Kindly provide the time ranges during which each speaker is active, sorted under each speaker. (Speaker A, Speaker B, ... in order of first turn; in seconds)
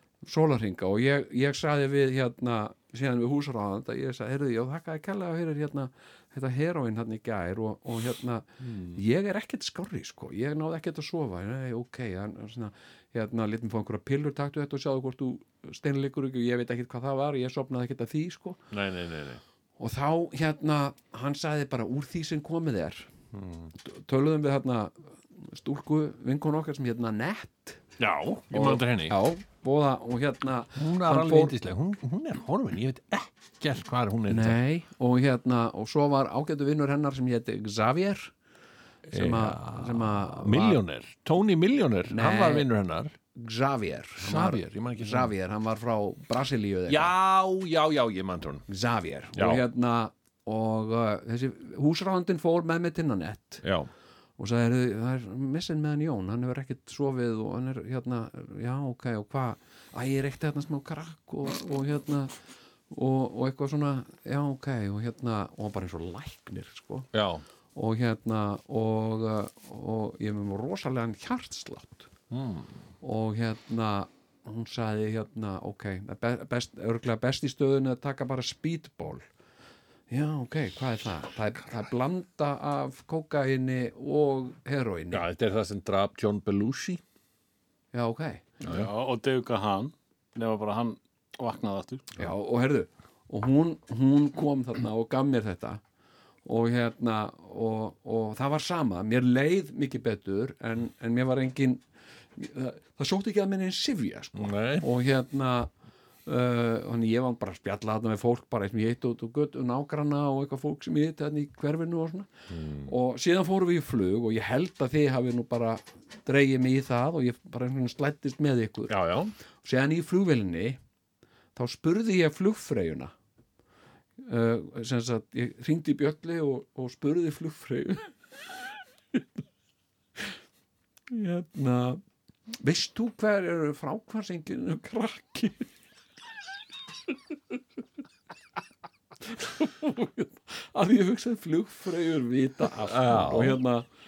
Speaker A: 0.2-18.6, 19.8-23.1, 23.8-27.8, 28.5-31.6, 34.3-38.3, 39.1-40.8, 42.1-42.7, 43.4-47.1, 48.7-53.6, 54.4-62.3, 62.9-67.1, 67.8-72.1, 73.0-79.2, 80.1-85.2, 87.9-88.5, 92.2-95.8, 96.5-101.8, 102.4-105.7, 106.3-112.3, 112.9-119.0, 119.6-120.8, 121.5-123.1, 124.2-128.1, 131.1-132.0, 132.6-135.7, 139.3-143.9
Speaker B: 8.6-9.0, 18.7-19.4, 23.3-23.7, 28.0-29.2, 30.8-34.6, 39.1-43.1, 44.2-45.3, 46.9-48.6, 49.3-49.6, 53.6-53.9, 67.1-67.4, 72.3-72.8, 85.1-87.0, 88.6-88.9, 104.3-104.9, 112.5-113.0, 118.9-119.3, 142.8-143.6
Speaker C: 88.7-92.1